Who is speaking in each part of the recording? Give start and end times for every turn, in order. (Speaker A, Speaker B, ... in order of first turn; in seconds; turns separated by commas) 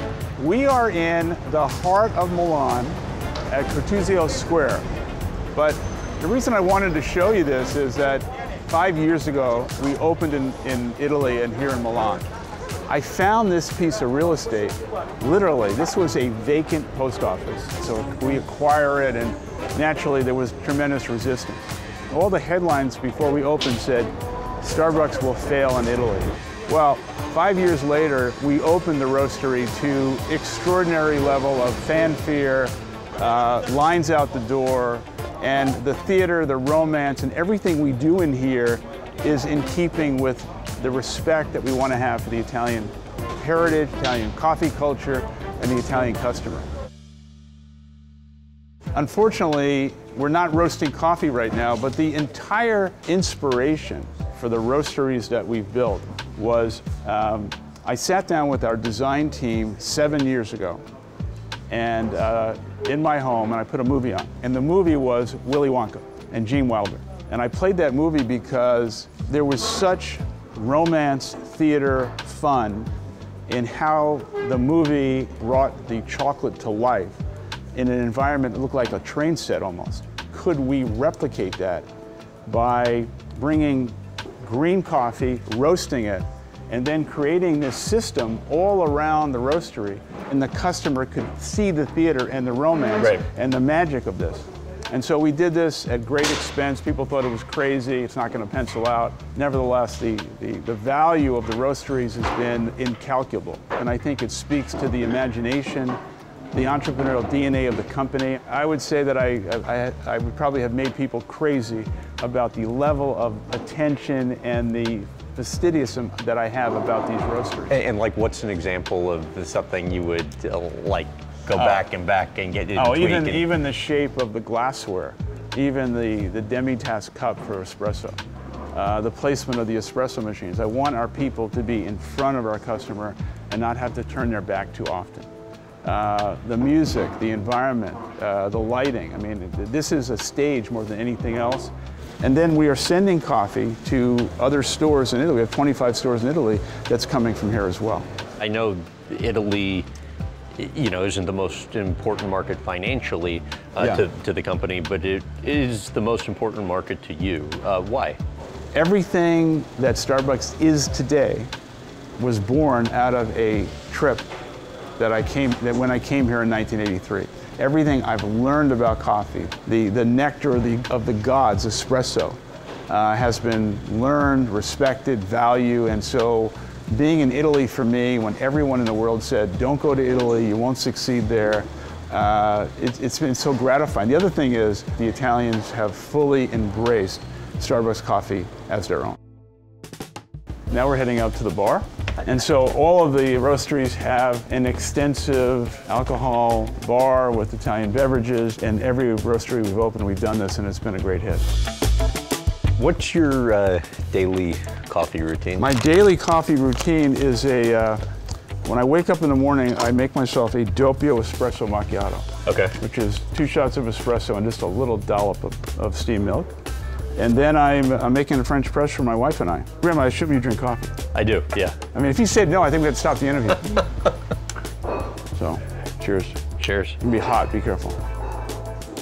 Speaker A: 0.4-4.8, Speaker A: 5.5-12.3, Speaker A: 12.9-46.7, Speaker A: 48.9-60.8, Speaker A: 61.7-72.9, Speaker A: 73.5-77.2, Speaker A: 77.7-81.9, Speaker A: 82.5-106.0, Speaker A: 106.5-117.7, Speaker B: 117.7-123.5, Speaker A: 121.5-121.8, Speaker A: 122.7-128.2, Speaker A: 128.7-135.3, Speaker A: 135.8-148.1, Speaker B: 148.4-149.9, Speaker B: 150.6-158.2, Speaker A: 153.8-154.0, Speaker A: 158.7-161.5, Speaker A: 162.2-164.3, Speaker A: 165.0-189.2, Speaker A: 190.7-201.5, Speaker B: 202.8-205.7, Speaker A: 205.6-208.0, Speaker A: 208.6-216.5, Speaker B: 212.4-212.7, Speaker A: 217.2-221.0, Speaker B: 221.1-221.8, Speaker A: 221.9-223.9, Speaker A: 225.3-226.4, Speaker B: 226.6-227.0, Speaker A: 227.0-228.0